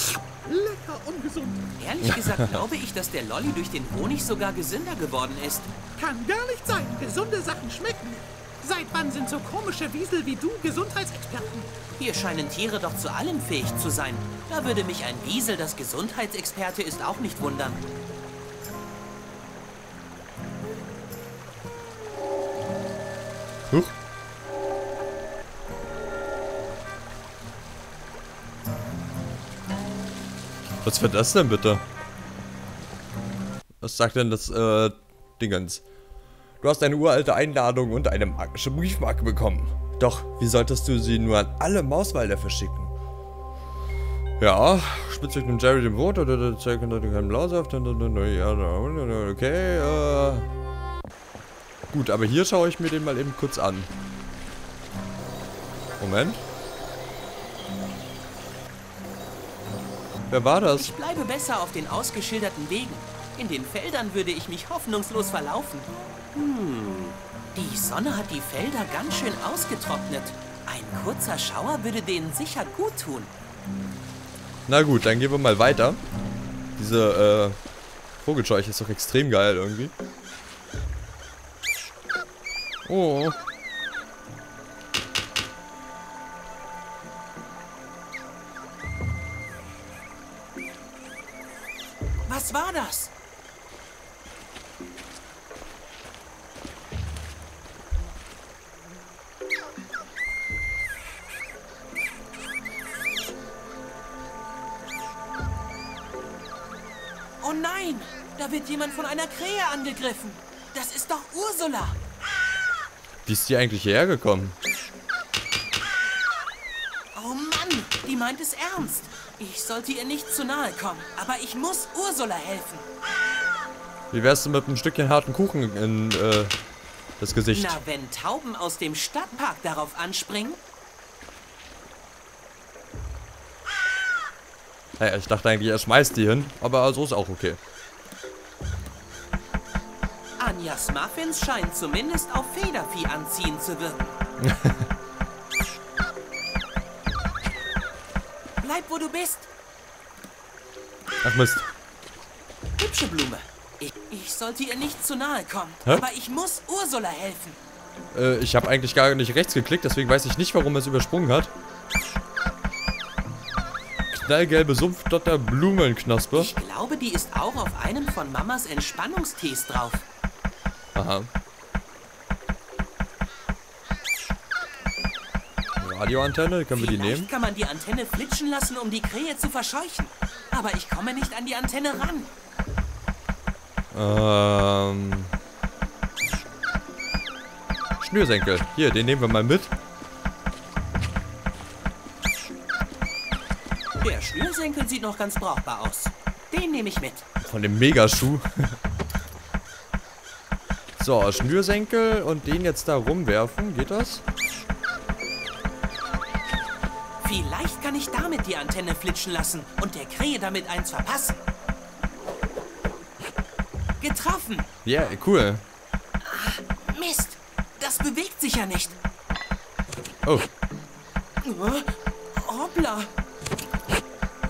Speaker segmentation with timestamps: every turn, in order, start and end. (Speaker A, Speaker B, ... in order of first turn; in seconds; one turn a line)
Speaker A: 0.4-1.6
Speaker B: 1.7-5.9
Speaker A: 6.0-11.7
Speaker B: 11.8-17.8
Speaker C: 30.8-31.8
Speaker C: 33.8-35.8
Speaker C: 36.6-42.9
Speaker C: 44.4-50.5
Speaker C: 51.9-53.9
Speaker C: 56.0-56.4
Speaker C: 60.3-60.9
Speaker B: 60.8-73.3
Speaker C: 74.7-76.0
Speaker C: 76.8-77.6
Speaker C: 78.2-79.9
Speaker C: 82.9-83.4
Speaker B: 92.2-93.1
Speaker B: 107.4-112.0
Speaker C: 113.2-114.5
Speaker B: 117.1-122.8
Speaker C: 124.1-126.5
Speaker C: 127.2-127.8
Speaker B: 127.5-130.6
Speaker C: 135.0-137.6
Speaker B: 140.4-144.2
Speaker C: 144.4-144.8
Speaker B: 148.6-149.5
Speaker C: 151.2-151.7
Speaker B: 152.8-157.6
Speaker C: 158.1-161.5
Speaker C: 164.1-166.5
Speaker B: 166.3-170.1
Speaker C: 170.9-171.3
Speaker C: 175.8-177.3
Speaker B: 176.7-182.3
Speaker C: 183.9-185.3
Speaker C: 188.0-189.7
Speaker B: 194.0-197.2
Speaker C: 197.4-198.8
Speaker C: 201.0-204.2
Speaker B: 207.2-211.4
Speaker B: 214.0-214.7
Speaker C: 214.8-215.6
Speaker B: 216.2-219.0
Speaker B: 221.4-223.1